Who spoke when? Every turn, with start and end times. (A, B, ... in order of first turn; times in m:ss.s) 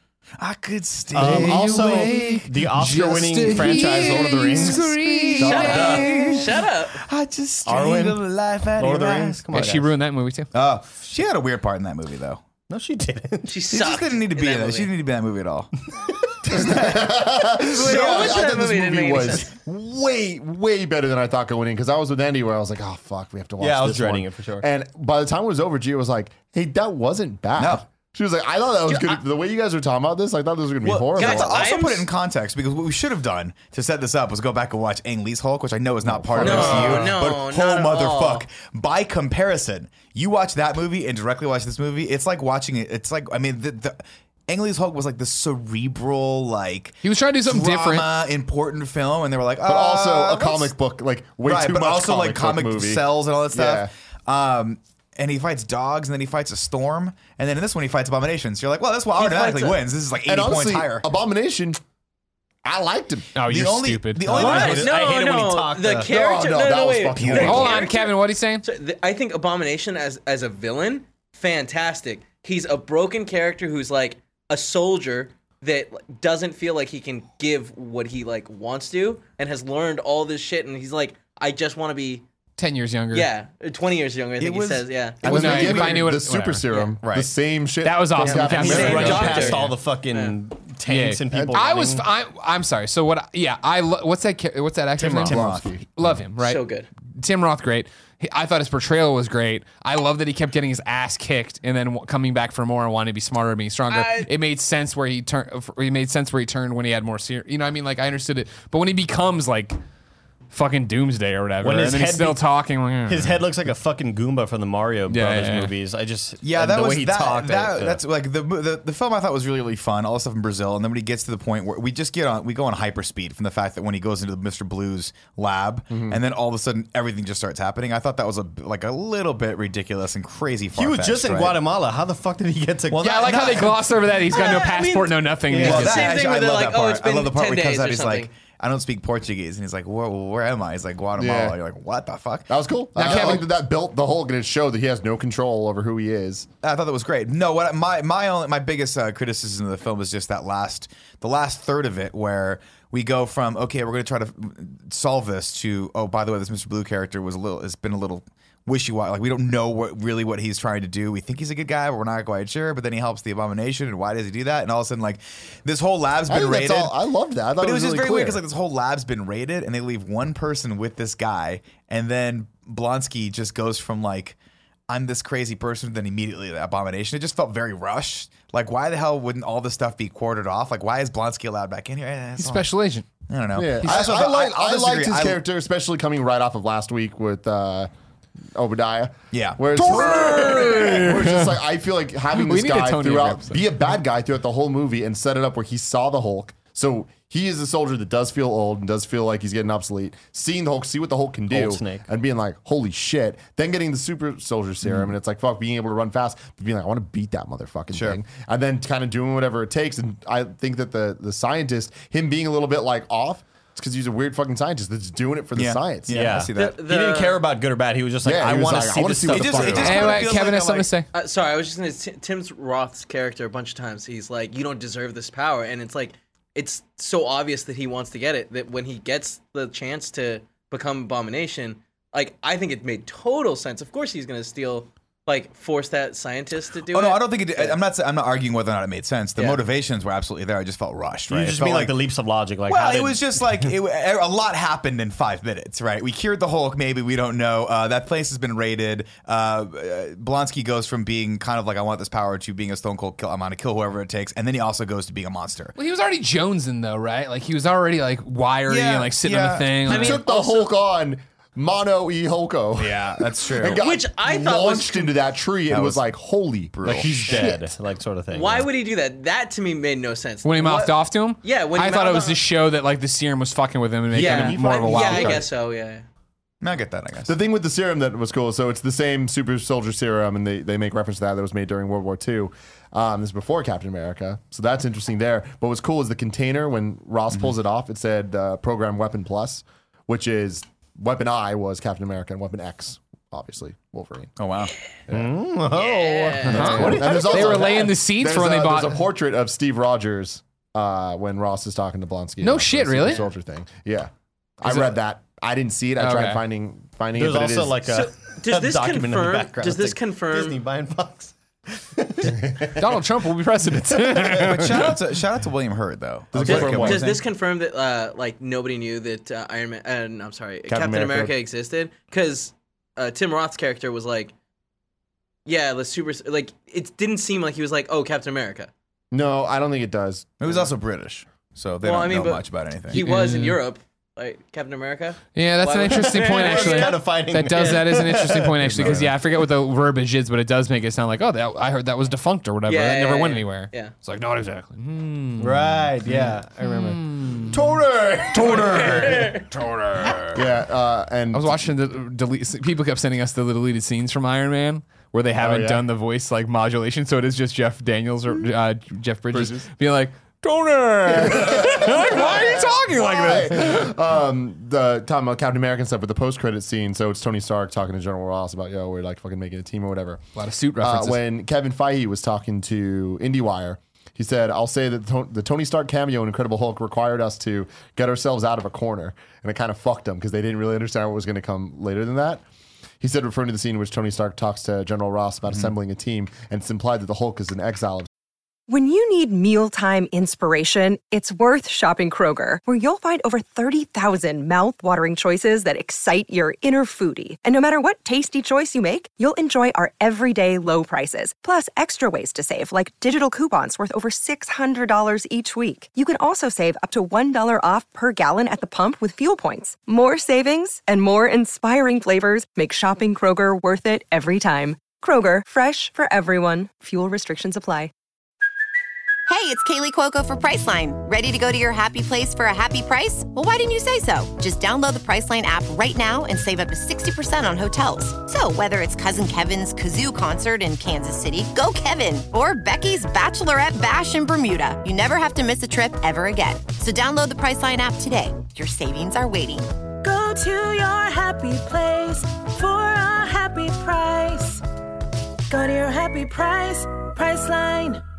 0:00.4-0:02.4 A
0:01.1-0:05.0 B
0:01.2-0:06.1 C
0:03.7-0:09.5 A
0:05.4-0:07.0 D
0:07.6-0:08.2 B
0:08.8-0:09.9 B
0:09.5-0:10.5 C
0:10.5-0:12.4 A
0:12.7-0:13.6 B
0:13.5-0:14.9 D
0:13.7-0:15.7 A
0:16.4-0:31.7 E
0:16.5-0:18.5 A
0:17.6-0:19.5 D
0:23.6-0:24.7 B
0:27.6-0:27.8 A
0:28.9-0:29.2 D
0:30.8-0:50.7 A
0:31.2-0:32.1 D
0:36.0-0:37.2 E
0:36.4-0:38.5 D
0:47.0-0:48.1 C
0:49.6-0:53.9 E
0:51.4-1:01.0 A
0:59.1-0:59.8 D
1:00.2-1:01.8 E
1:02.6-1:03.7 E
1:03.4-1:04.7 C
1:03.5-1:04.9 A
1:04.2-1:06.1 B
1:04.3-1:22.2 D
1:06.1-1:07.9 E
1:07.2-1:07.8 A
1:07.4-1:08.6 C
1:22.6-1:23.3 C
1:23.1-1:25.6 D
1:24.4-1:26.1 A
1:25.2-1:29.5 E
1:25.2-1:26.7 C
1:26.7-1:27.0 D
1:27.0-1:27.3 A
1:27.8-1:29.7 C
1:28.2-1:30.4 D
1:28.6-1:32.1 B
1:30.9-1:35.4 C
1:31.3-1:31.6 E
1:35.0-1:35.7 A
1:35.0-1:35.9 E
1:36.0-1:36.6 C
1:36.4-1:36.9 D
1:37.2-1:49.8 C
1:43.9-1:44.3 D
1:50.5-1:53.4 C
1:51.6-1:52.5 B
1:53.1-1:58.0 B
1:55.1-1:55.7 C
1:56.4-2:11.6 A
2:05.9-2:06.2 E
2:10.7-2:13.0 B
2:12.9-2:13.8 A
2:13.0-2:16.1 C
2:14.3-2:18.3 D
2:15.5-2:22.5 A
2:15.5-2:16.0 B
2:21.2-2:21.6 E
2:22.5-2:26.5 E
2:23.0-2:23.5 C
2:23.0-2:23.4 A
2:26.6-2:47.0 A
2:46.3-2:48.4 E
2:47.6-2:54.4 A
2:54.9-3:02.7 A
3:02.4-3:03.1 C
3:03.3-3:05.4 A
3:03.5-3:07.9 E
3:08.5-3:36.2 E
3:09.3-3:10.5 A
3:09.8-3:11.5 C
3:12.3-3:13.6 C
3:21.5-3:22.0 B
3:27.9-3:28.2 A
3:35.6-3:36.8 A
3:36.1-3:40.1 B
3:36.6-3:37.4 D
3:38.2-3:40.2 E
3:39.3-3:40.9 A
3:39.8-3:41.1 C
3:41.1-3:57.8 D
3:56.9-4:02.0 A
4:01.3-4:03.7 B
4:02.7-4:15.8 A
4:15.8-4:20.2 C
4:18.7-4:20.1 A
4:19.9-4:20.7 D
4:19.9-4:27.7 E
4:22.8-4:23.8 A
4:23.7-4:25.2 D
4:25.7-4:26.0 A
4:26.7-4:27.4 A
4:26.8-4:28.7 B
4:28.3-4:32.4 D
4:30.4-4:35.4 C
4:34.1-4:35.5 E
4:34.1-4:36.0 D
4:36.6-4:37.4 A
4:37.3-4:54.3 E
4:54.4-4:54.7 A
4:55.1-4:57.8 B
4:55.7-4:57.0 D
4:56.4-5:07.8 E
4:56.5-4:59.0 C
5:02.4-5:03.2 C
5:04.6-5:04.9 C
5:06.0-5:06.4 C
5:07.2-5:12.8 B
5:07.9-5:10.6 D
5:12.8-5:14.9 C
5:14.3-5:17.2 A
5:16.3-5:17.1 E
5:16.5-5:24.3 D
5:20.7-5:21.3 E
5:25.5-5:28.7 D
5:29.1-5:30.7 E
5:30.4-5:33.0 A
5:31.8-5:37.8 D
5:32.9-5:33.6 C
5:35.4-5:47.6 C
5:35.9-5:39.1 B
5:38.7-5:39.1 E
5:42.7-5:43.9 D
5:45.4-5:47.4 B
5:47.5-5:49.3 E
5:48.4-5:49.5 D
5:49.7-5:50.2 C
5:50.3-5:51.6 E
5:51.3-6:03.9 C
5:55.4-5:55.8 E
5:59.3-5:59.7 E
6:01.1-6:10.2 E
6:10.4-6:11.2 C
6:10.8-6:22.4 E
6:23.0-6:28.1 E
6:28.7-6:57.9 F
6:59.3-7:19.7 G
7:20.0-7:24.6 H
7:25.5-7:28.0 H